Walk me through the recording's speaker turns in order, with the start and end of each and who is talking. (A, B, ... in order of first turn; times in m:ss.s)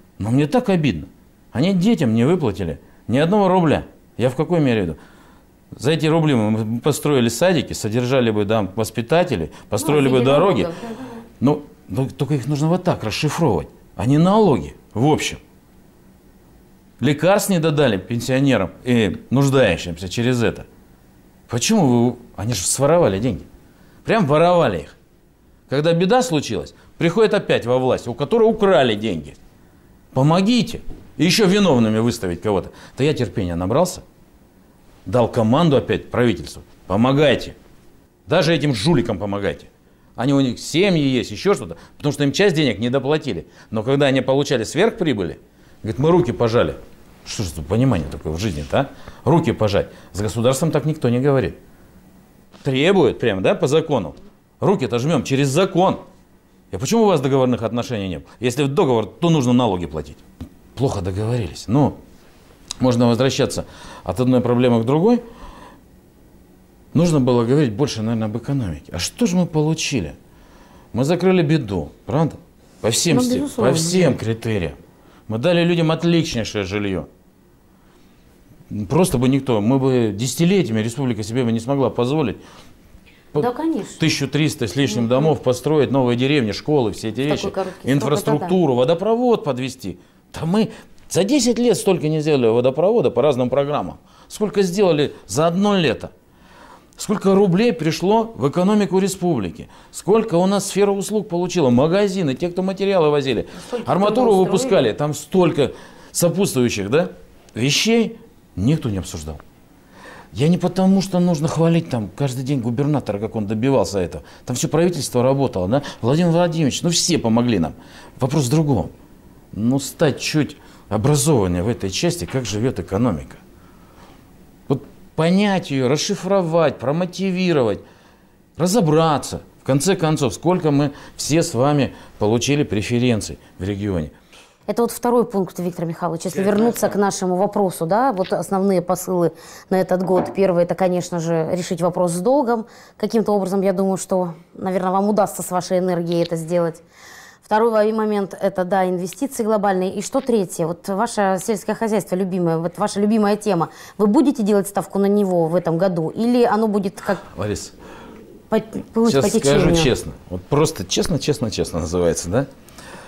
0:00.2-0:05.0 A
0:05.8-0:10.7 A
0:09.8-0:11.2 B
0:11.4-0:15.4 A
0:17.0-0:20.7 A
0:21.5-0:23.5 A
0:24.0-0:25.0 A
0:25.7-0:29.4 A
0:30.1-0:34.0 A
0:35.1-0:37.6 A
0:38.3-0:51.6 A
0:52.6-0:56.0 A
0:56.7-1:00.2 A
1:00.8-1:02.0 A
1:02.8-1:05.2 A
1:06.9-1:10.2 A
1:10.9-1:17.1 A
1:13.1-1:14.2 B
1:18.7-1:22.4 A
1:23.3-1:36.1 A
1:23.4-1:24.0 B
1:24.9-1:25.3 B
1:27.3-1:28.6 B
1:37.0-1:49.4 A
1:43.6-1:44.9 B
1:50.3-1:58.9 A
1:59.5-2:03.4 A
2:04.7-2:07.8 A
2:08.6-2:14.1 A
2:14.7-2:26.8 B
2:27.4-2:37.2 B
2:37.2-2:37.7 A
2:38.5-2:39.9 B
2:39.0-2:42.5 A